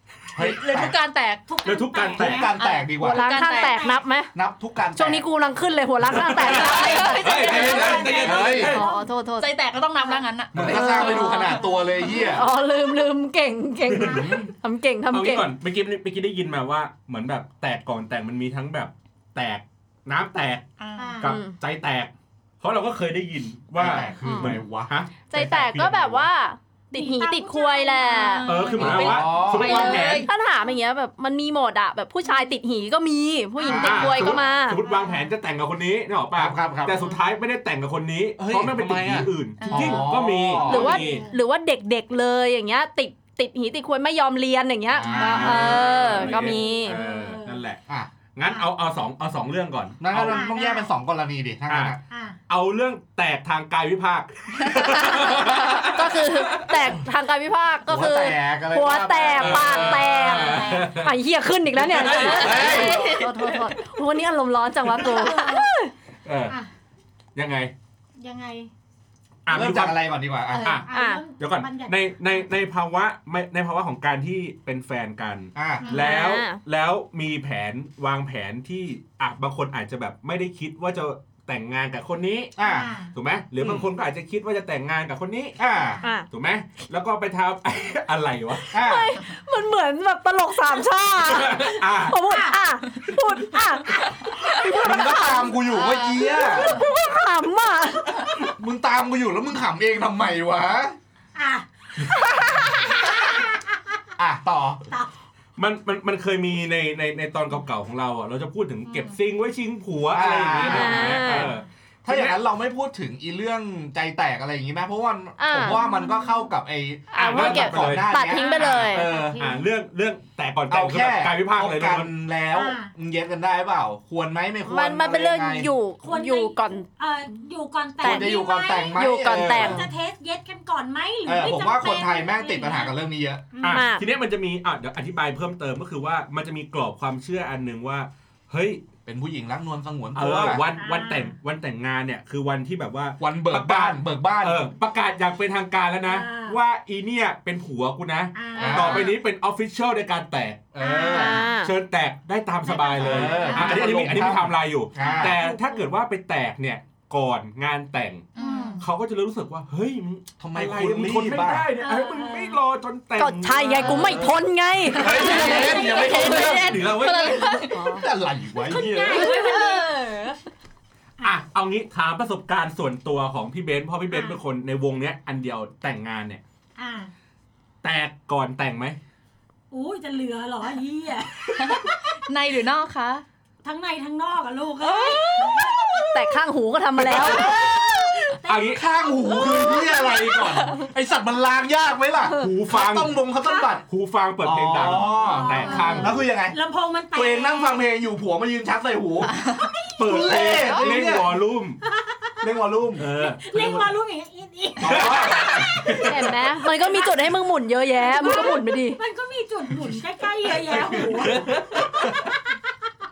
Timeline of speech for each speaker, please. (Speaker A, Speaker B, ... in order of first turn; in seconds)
Speaker A: 0.3-1.0, 2.2-3.3, 4.3-5.2, 8.2-8.8, 10.5-12.5, 13.9-14.5, 23.8-26.2, 28.8-29.9, 33.6-34.4, 36.4-37.0, 38.4-40.9, 44.9-45.8, 50.0-52.0, 57.9-60.1, 62.3-63.0, 69.5-70.8, 75.5-75.9, 82.6-82.9, 83.6-83.9, 85.6-86.0, 88.7-89.1, 94.7-96.8, 98.3-101.0, 104.2-104.8, 110.1-111.5, 112.0-119.4, 120.7-125.7, 128.0-129.9, 131.3-133.5, 139.1-140.7, 143.2-144.7, 148.6-149.1, 150.7-151.4, 153.0-155.4, 160.4-161.7, 163.8-164.3, 164.9-169.3, 187.1-187.5, 188.7-193.9, 194.4-196.6, 197.1-199.3, 200.0-201.3, 202.4-203.1, 204.8-206.5, 210.6-212.3
Speaker B: 0.4-1.4, 2.5-3.9, 6.5-8.8, 9.4-11.6, 20.8-21.2, 28.0-30.3, 39.6-40.1, 45.2-45.9, 54.7-55.9, 62.2-63.9, 95.7-96.8, 158.3-158.9, 165.1-168.0, 168.8-170.4, 181.6-183.2, 184.8-186.0, 199.3-199.7
Speaker C: 1.5-2.5, 3.4-4.0, 7.0-9.1, 11.2-12.3, 21.0-21.4, 26.9-28.7, 33.6-34.0, 34.8-35.3, 40.5-41.4, 45.1-47.6, 50.2-50.9, 52.1-52.4, 60.0-60.9, 65.0-65.7, 68.2-68.7, 70.7-72.4, 75.8-76.1, 82.6-83.1, 85.7-86.1, 92.2-92.6, 101.3-103.9, 115.7-116.5, 118.3-119.7, 122.5-122.9, 126.0-133.0, 133.5-133.9, 140.8-141.3, 146.1-146.6, 148.3-149.1, 150.8-151.5, 152.6-154.1, 155.0-155.9, 158.4-158.9, 161.8-162.6, 165.2-166.2, 168.7-169.9, 176.8-177.1, 179.7-182.2, 183.6-185.8, 187.3-190.8, 195.2-197.9, 199.5-202.4, 203.1-207.4, 207.9-211.5
Speaker D: 1.6-2.5, 6.0-8.8, 13.9-14.3, 15.1-20.6, 21.2-26.2, 28.5-30.3, 33.7-41.2, 45.1-47.8, 48.3-50.5, 51.7-52.0, 52.5-56.9, 59.4-61.1, 61.7-62.9, 66.2-66.5, 67.3-67.7, 69.5-82.6, 83.1-85.6, 86.3-88.8, 91.3-92.2, 105.6-112.4, 117.1-122.1, 133.6-138.8, 140.2-150.7, 151.6-158.3, 158.8-164.4, 166.1-167.6, 171.2-176.4, 177.8-179.0, 187.0-187.6, 188.4-188.9, 192.3-193.2, 193.9-196.2, 200.0-201.8, 203.0-203.9, 204.8-205.8, 210.9-212.2
Speaker E: 3.0-4.3, 5.0-9.6, 10.6-15.5, 21.2-21.5, 24.2-24.5, 25.3-34.8, 40.6-47.0, 55.9-65.9, 70.9-71.2, 75.9-76.6, 86.0-86.3, 88.7-95.5, 96.2-98.4, 110.7-111.5, 115.4-115.9, 117.1-119.0, 124.7-126.9, 128.0-128.4, 128.9-129.9, 133.7-134.1, 148.6-149.1, 151.1-151.7, 163.2-166.8, 167.6-168.0, 186.1-187.6, 205.9-209.0